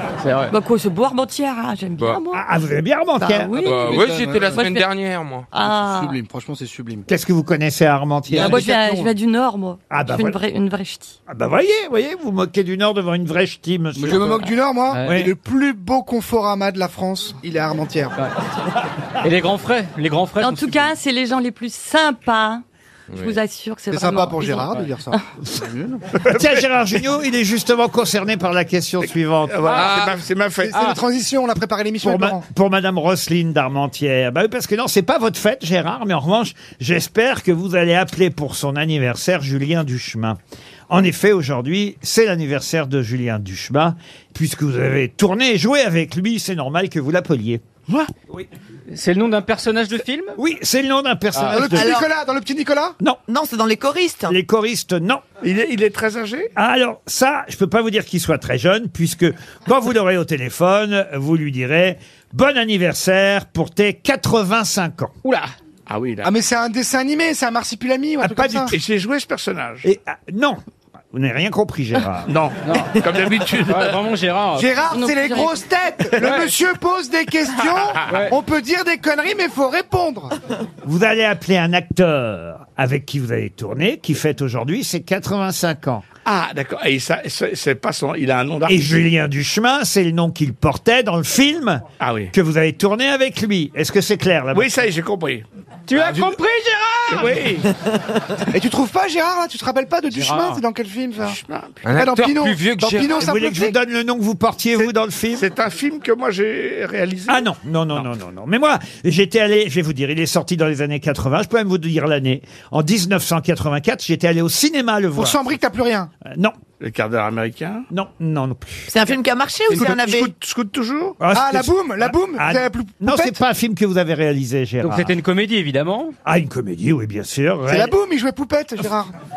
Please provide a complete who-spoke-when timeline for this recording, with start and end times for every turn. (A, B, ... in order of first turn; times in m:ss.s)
0:00.2-0:00.5 A
0:00.5-0:02.4 B
0:02.3-0:03.9 C
0:03.2-0:04.9 B
0:03.6-0:05.5 D
0:03.6-0:04.6 E
0:05.5-0:06.2 B
0:05.6-0:07.1 E
0:07.1-0:08.7 C
0:08.3-0:09.1 E
0:08.4-0:11.2 B
0:09.9-0:10.4 C
0:11.3-0:14.4 C
0:14.0-0:18.1 E
0:14.9-0:15.3 A
0:15.0-0:15.3 C
0:19.2-0:20.9 A
0:20.4-0:22.6 B
0:23.1-0:23.4 D
0:23.1-0:25.1 B
0:23.9-0:26.0 E
0:26.2-0:26.6 F
0:26.2-0:29.7 C
0:29.5-0:30.8 F
0:29.7-0:30.1 A
0:29.7-0:30.2 D
0:30.6-0:32.4 E
0:32.0-0:40.4 C
0:40.9-0:47.6 C
0:48.9-0:50.4 A
0:50.4-0:52.0 C
0:51.4-0:51.6 A
0:51.5-0:53.0 E
0:51.7-0:52.0 G
0:53.3-0:54.4 G
0:54.3-0:55.2 C
0:55.4-0:56.5 F
0:56.6-1:05.1 C
1:05.9-1:06.3 F
1:06.2-1:08.7 E
1:08.2-1:08.7 C
1:08.7-1:09.9 F
1:09.8-1:10.6 C
1:11.1-1:12.3 C
1:12.3-1:14.0 F
1:12.6-1:13.0 A
1:13.6-1:14.7 A
1:14.5-1:20.4 E
1:14.9-1:15.6 B
1:16.2-1:16.6 A
1:18.1-1:18.4 A
1:20.8-1:26.0 C
1:26.2-1:28.8 F
1:28.7-1:34.7 C
1:32.0-1:32.3 F
1:34.5-1:35.4 F
1:35.9-1:37.6 A
1:36.0-1:36.4 E
1:37.1-1:37.7 F
1:38.5-1:41.4 E
1:40.1-1:40.6 A
1:41.2-1:41.9 F
1:41.8-1:43.3 D
1:41.9-1:43.8 E
1:43.2-1:45.5 C
1:45.4-1:47.4 F
1:47.3-1:55.4 C
1:55.1-1:56.1 E
1:56.2-1:56.6 C
1:56.8-1:57.9 F
1:57.9-1:58.9 C
1:58.9-2:00.3 G
1:59.7-2:01.2 F
2:01.2-2:05.1 C
2:01.3-2:03.4 E
2:04.8-2:06.1 A
2:06.2-2:07.9 C
2:07.7-2:09.1 E